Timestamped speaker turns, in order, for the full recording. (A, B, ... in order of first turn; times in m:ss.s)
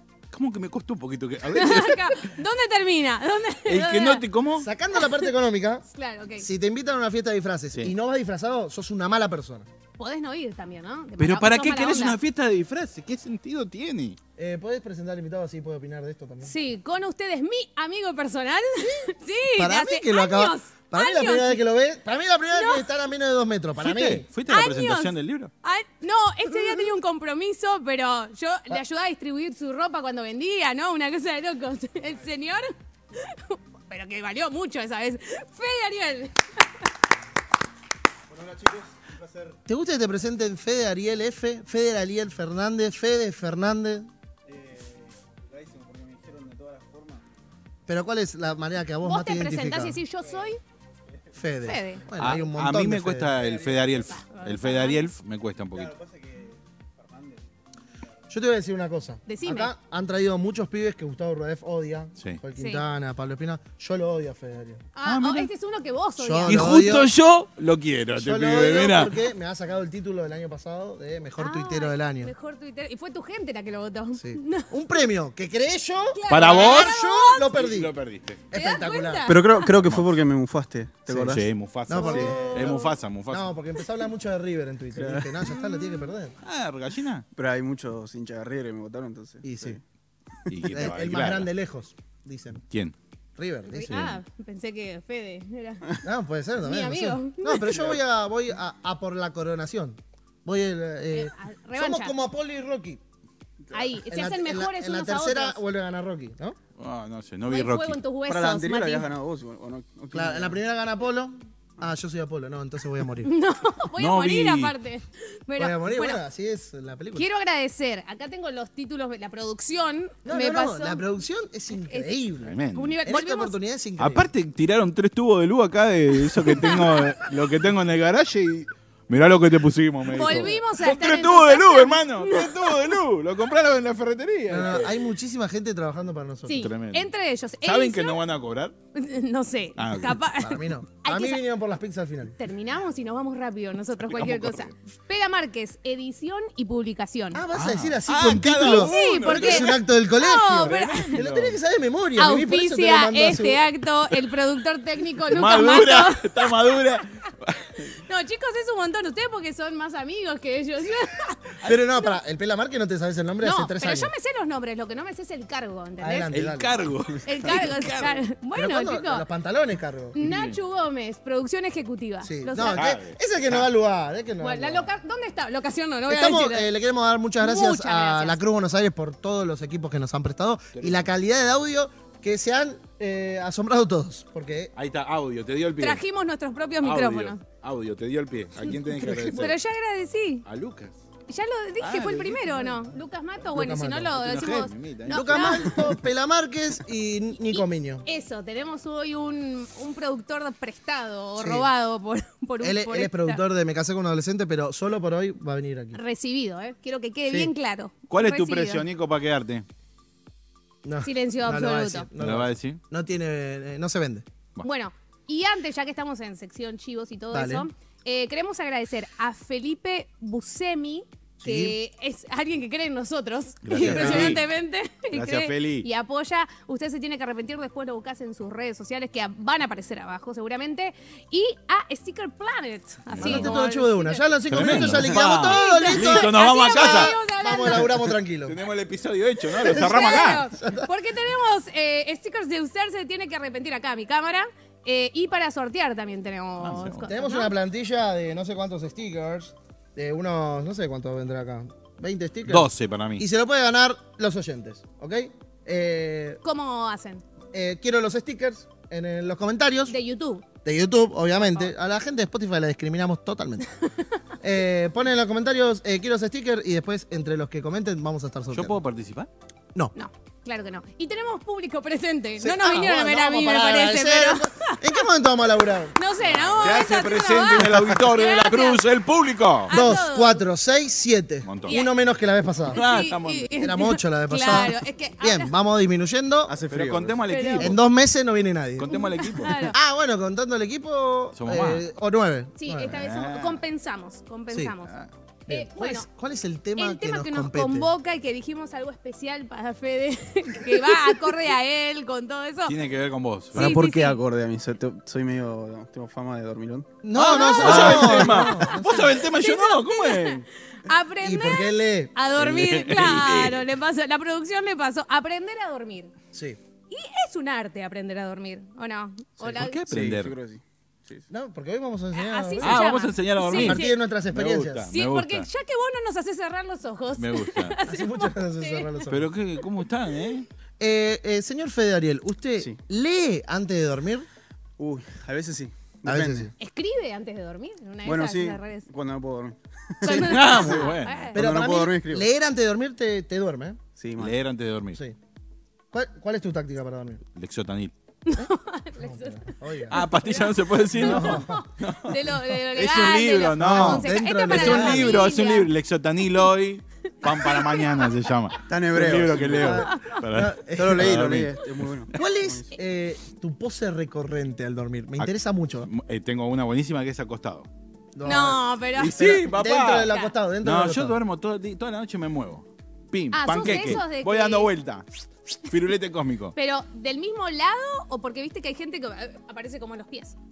0:00.3-0:02.4 A
0:01.5-0:04.2 B
0:03.7-0:04.7 A
0:04.5-0:05.8 C
0:05.9-0:06.5 B
0:06.4-0:09.7 C
0:10.0-0:12.2 B
0:11.2-0:14.2 A
0:14.4-0:16.5 C
0:16.4-0:21.6 B
0:18.8-0:24.3 C
0:22.5-0:22.9 B
0:23.8-0:25.5 A
0:24.4-0:36.4 B
0:38.3-0:39.6 D
0:39.7-0:44.1 C
0:44.5-0:47.2 D
0:47.9-0:50.0 C
0:49.0-0:50.6 B
0:51.4-0:53.3 C
0:51.6-0:52.0 B
0:52.2-0:55.9 A
0:53.4-0:53.9 D
0:54.1-0:55.0 B
0:55.8-0:57.4 D
0:58.3-1:04.8 C
0:59.3-0:59.7 B
1:02.6-1:02.8 B
1:05.0-1:06.6 B
1:05.0-1:05.5 A
1:06.2-1:07.1 C
1:06.5-1:09.2 A
1:08.2-1:12.3 C
1:11.4-1:14.7 B
1:14.2-1:18.0 C
1:16.1-1:17.6 B
1:16.3-1:17.0 A
1:17.5-1:18.4 A
1:18.5-1:19.3 C
1:18.5-1:19.7 B
1:19.3-1:21.5 D
1:19.8-1:20.2 A
1:21.1-1:26.4 C
1:21.3-1:23.5 A
1:22.0-1:22.3 D
1:22.0-1:22.8 B
1:24.9-1:25.4 D
1:25.5-1:26.1 B
1:26.4-1:27.3 A
1:27.4-1:29.8 D
1:29.4-1:29.8 C
1:30.5-1:31.5 A
1:30.7-1:32.6 C
1:33.4-1:34.1 C
1:33.7-1:35.9 B
1:33.9-1:34.2 A
1:36.0-1:43.0 C
1:36.6-1:37.8 B
1:41.1-1:42.2 B
1:43.7-1:45.6 B
1:44.1-1:46.6 C
1:46.8-1:48.0 A
1:47.5-1:49.1 B
1:48.3-1:50.6 D
1:50.1-1:53.3 C
1:53.2-1:56.2 B
1:54.0-1:54.7 A
1:55.6-1:57.3 C
1:57.2-2:01.0 B
2:00.2-2:04.3 C
2:01.7-2:02.2 B
2:02.4-2:03.0 A
2:02.8-2:03.6 B
2:04.0-2:14.9 A
2:06.5-2:07.2 B
2:10.1-2:12.9 B
2:10.2-2:10.5 C
2:14.5-2:16.7 C
2:16.5-2:18.2 B
2:16.5-2:17.1 A
2:17.6-2:18.7 A
2:18.9-2:21.4 B
2:19.8-2:20.2 A
2:20.4-2:22.4 C
2:22.4-2:27.4 B
2:24.1-2:24.7 A
2:27.3-2:33.6 C
2:27.5-2:29.8 A
2:28.6-2:31.2 B
2:30.6-2:31.6 A
2:32.2-2:36.8 B
2:35.3-2:37.9 A
2:38.0-2:41.6 B
2:41.6-2:44.1 C
2:43.4-2:46.3 B
2:46.0-2:46.7 C
2:46.3-2:48.2 A
2:47.2-2:49.3 B
2:48.6-2:50.2 C
2:50.1-2:52.9 B
2:50.2-2:50.6 A
2:52.2-2:54.9 C
2:52.7-2:53.6 A
2:54.4-2:56.7 B
2:56.1-3:04.7 C
2:57.4-2:58.4 B
3:00.7-3:01.0 A
3:04.8-3:06.0 A
3:05.8-3:07.4 B
3:06.8-3:09.6 A
3:08.8-3:09.6 C
3:09.3-3:10.5 B
3:10.5-3:10.9 A
3:11.3-3:15.9 B
3:11.8-3:13.0 A
3:13.5-3:14.2 C
3:14.1-3:15.6 A
3:15.1-3:18.1 C
3:17.3-3:23.4 B
3:21.4-3:21.7 C
3:22.6-3:26.0 C
3:25.9-3:28.8 B
3:28.1-3:29.6 A
3:30.8-3:34.2 C
3:31.0-3:32.1 B
3:32.2-3:32.8 A
3:34.6-3:58.0 B
3:37.3-3:37.7 C
3:41.4-3:41.8 C
3:43.6-3:44.5 A
3:43.7-3:44.4 C
3:45.1-3:45.9 A
3:53.1-3:53.6 A
3:53.2-3:58.6 C
3:54.5-3:57.1 A
3:58.5-4:00.4 A
3:59.6-4:07.5 B
3:59.6-4:00.9 C
4:06.6-4:07.1 A
4:07.1-4:16.4 C
4:12.5-4:13.3 A
4:16.4-4:17.2 B
4:17.5-4:20.0 C
4:19.9-4:20.5 B
4:20.6-4:23.7 C
4:21.4-4:21.7 B
4:24.4-4:28.8 C
4:28.5-4:29.3 A
4:30.0-4:35.0 B
4:32.4-4:36.8 C
4:35.9-4:38.8 B
4:36.6-4:39.8 A
4:39.7-4:40.4 B
4:39.7-4:42.8 C
4:41.4-4:41.8 A
4:41.7-4:41.9 B
4:42.7-4:43.5 A
4:42.7-4:45.6 B
4:43.6-4:46.6 C
4:46.5-4:47.2 D
4:46.7-4:47.8 A
4:47.3-4:47.7 B
4:47.6-4:49.0 C
4:48.8-4:49.7 A
4:48.9-4:49.8 B
4:49.7-4:53.0 C
4:51.4-4:51.8 A
4:52.6-4:54.9 B
4:52.9-4:53.6 A
4:55.5-4:57.9 C
4:55.5-4:56.1 B
4:56.8-5:02.8 B
5:02.7-5:03.7 A
5:03.6-5:04.2 B
5:03.6-5:06.9 D
5:03.6-5:03.9 C
5:07.0-5:09.2 C
5:07.2-5:10.5 A
5:07.2-5:16.1 B
5:11.2-5:12.1 C
5:12.4-5:13.6 A
5:16.3-5:16.6 C
5:16.9-5:19.8 B
5:19.4-5:20.3 A
5:19.9-5:21.3 D
5:21.3-5:22.9 C
5:22.1-5:24.0 B
5:22.6-5:25.5 A
5:23.5-5:24.9 C
5:24.9-5:29.0 B
5:27.2-5:27.8 A
5:27.8-5:29.3 C
5:29.1-5:30.5 A
5:30.8-5:34.3 C
5:34.8-5:36.5 D
5:36.0-5:36.5 C
5:36.6-5:38.9 B
5:38.0-5:40.8 D
5:40.0-5:41.4 B
5:40.1-5:41.3 A
5:41.4-5:42.3 D
5:41.4-5:43.8 C
5:44.0-5:44.4 D
5:44.2-5:45.0 A
5:45.9-5:47.2 C
5:47.4-5:47.9 A
5:48.2-5:55.7 B
5:48.4-5:50.0 C
5:49.9-6:01.8 A
5:51.0-5:51.6 C
5:53.6-5:55.2 C
5:57.2-5:58.1 B
5:58.7-5:59.8 D
5:59.4-6:01.2 C
5:59.7-6:00.2 B
6:00.8-6:02.7 D
6:02.2-6:05.9 C
6:05.8-6:07.7 A
6:08.2-6:11.2 C
6:08.2-6:09.5 B
6:09.0-6:16.6 A
6:10.0-6:10.3 B
6:13.3-6:14.7 B
6:16.6-6:20.4 B